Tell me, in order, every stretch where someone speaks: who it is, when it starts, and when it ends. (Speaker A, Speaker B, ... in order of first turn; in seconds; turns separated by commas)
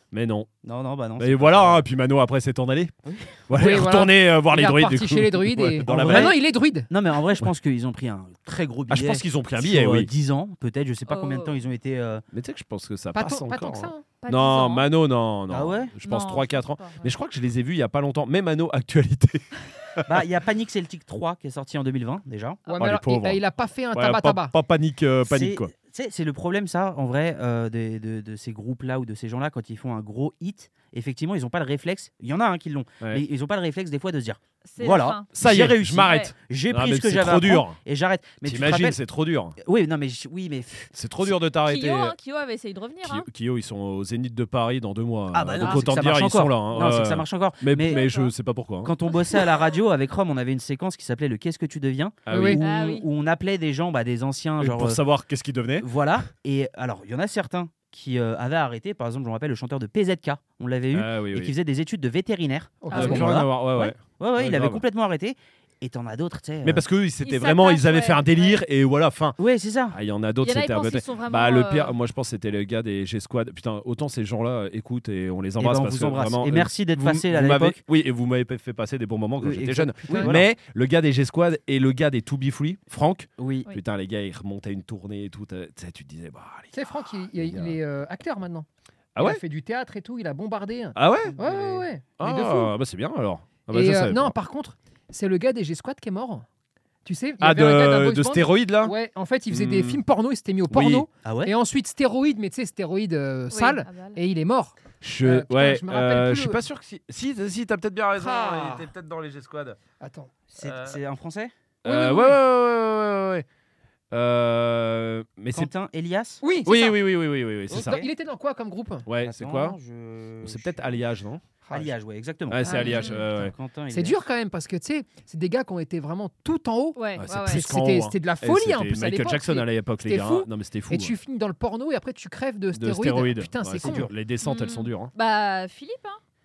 Speaker A: 0.1-0.5, Speaker B: 0.6-1.8, Speaker A: 1.2-2.9, Speaker B: 3.0-3.4, Speaker A: 3.5-6.3, Speaker C: 3.5-6.9, Speaker B: 5.8-12.2, Speaker A: 8.9-10.1, Speaker D: 11.1-11.6, Speaker A: 12.3-20.1, Speaker C: 13.1-14.1, Speaker D: 14.2-14.9, Speaker B: 15.5-15.9, Speaker D: 16.0-17.1, Speaker B: 20.1-22.6, Speaker C: 22.7-24.5, Speaker A: 22.8-23.4, Speaker A: 23.9-25.7, Speaker B: 25.2-39.0, Speaker D: 34.6-35.4, Speaker A: 35.3-37.8, Speaker D: 36.0-36.3, Speaker A: 38.4-39.6, Speaker B: 39.6-40.9, Speaker A: 40.9-42.1, Speaker D: 41.6-43.3, Speaker A: 43.0-48.9, Speaker B: 45.3-48.1, Speaker D: 45.6-45.9, Speaker D: 47.8-48.3, Speaker B: 48.8-55.0, Speaker A: 52.2-52.6, Speaker C: 52.3-52.6, Speaker D: 52.6-53.1, Speaker A: 54.6-55.9, Speaker B: 55.8-66.8, Speaker A: 60.9-61.5, Speaker C: 62.8-63.4, Speaker D: 62.9-63.3, Speaker A: 62.9-64.8, Speaker A: 66.6-69.4, Speaker D: 67.2-68.6, Speaker B: 69.4-70.0, Speaker A: 69.9-87.8, Speaker D: 70.4-71.9, Speaker B: 75.6-77.8, Speaker B: 79.4-80.5, Speaker C: 80.1-80.4, Speaker B: 83.4-83.7, Speaker C: 86.7-88.7, Speaker A: 89.1-89.4, Speaker C: 89.2-92.7, Speaker A: 90.9-91.4, Speaker B: 91.2-91.8, Speaker A: 92.2-94.3, Speaker C: 93.7-96.5, Speaker C: 97.0-106.6, Speaker A: 97.4-98.9, Speaker A: 99.5-100.0, Speaker A: 100.7-101.1, Speaker B: 101.2-101.5, Speaker D: 103.5-104.2, Speaker A: 105.0-109.8, Speaker C: 108.2-108.9, Speaker C: 110.0-110.3, Speaker B: 110.5-111.5, Speaker A: 110.6-111.0, Speaker C: 111.8-112.4, Speaker A: 111.8-113.4, Speaker A: 114.1-115.7, Speaker B: 115.5-116.4, Speaker C: 116.4-117.0, Speaker A: 116.7-118.0, Speaker B: 117.7-118.1, Speaker C: 117.7-119.1, Speaker A: 119.1-119.8, Speaker B: 119.2-121.0, Speaker A: 120.4-121.4, Speaker C: 121.6-121.9, Speaker B: 121.7-124.2, Speaker A: 122.5-123.5, Speaker D: 122.7-123.3, Speaker C: 123.9-134.1, Speaker D: 127.0-127.6, Speaker A: 127.2-131.1, Speaker A: 132.7-135.1, Speaker B: 133.8-134.1, Speaker D: 134.4-136.2